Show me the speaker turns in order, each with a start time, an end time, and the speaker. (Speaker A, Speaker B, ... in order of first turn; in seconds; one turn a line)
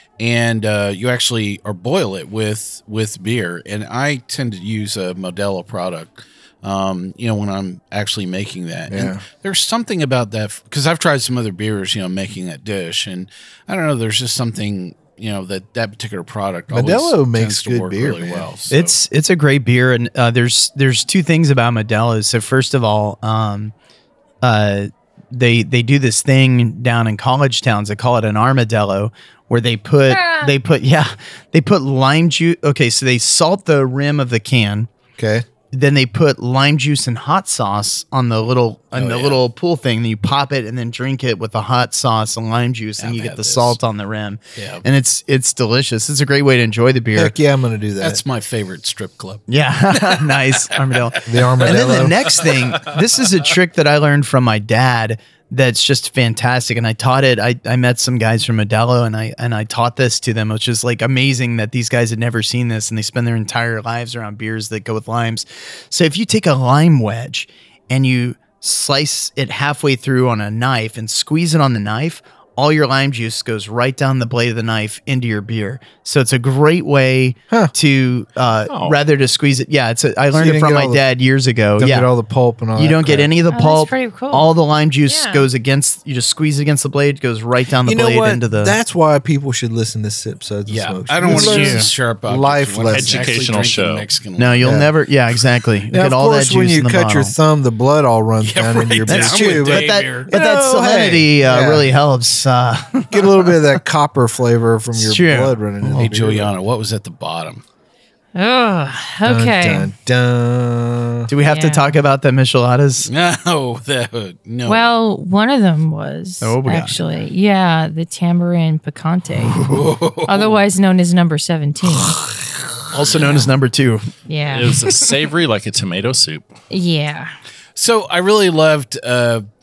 Speaker A: 0.2-18.9
Speaker B: 8.9-9.2
Speaker B: 16.7-18.5
Speaker C: 18.7-23.7
Speaker C: 24.4-34.9
Speaker D: 30.1-30.5
Speaker B: 35.2-35.5
Speaker C: 35.7-47.3
Speaker A: 38.9-39.4
Speaker A: 43.0-43.8
Speaker A: 44.6-44.8
Speaker B: 47.1-48.2
Speaker A: 48.0-49.4
Speaker C: 49.5-82.1
Speaker B: 51.2-52.2
Speaker E: 78.7-79.0
Speaker B: 80.3-81.0
Speaker B: 81.8-83.3
Speaker C: 82.8-88.7
Speaker D: 83.5-84.5
Speaker D: 85.0-85.5
Speaker B: 87.8-93.4
Speaker A: 90.7-94.8
Speaker C: 91.2-91.9
Speaker E: 92.9-94.1
Speaker C: 94.4-97.3
Speaker B: 94.6-94.9
Speaker B: 95.9-101.9
Speaker A: 98.4-100.3
Speaker C: 99.1-103.5
Speaker B: 103.1-106.5
Speaker C: 105.0-106.1
Speaker A: 106.0-107.6
Speaker D: 108.4-109.9
Speaker B: 109.2-111.3
Speaker C: 111.3-113.1
Speaker D: 111.4-112.0
Speaker A: 113.0-114.9
Speaker D: 114.7-119.6
Speaker C: 116.4-117.0
Speaker C: 119.4-119.8
Speaker A: 119.7-120.6
Speaker D: 120.2-122.2
Speaker C: 122.9-124.1
Speaker D: 124.3-124.8
Speaker E: 124.5-126.5
Speaker D: 126.7-127.3
Speaker A: 127.8-129.4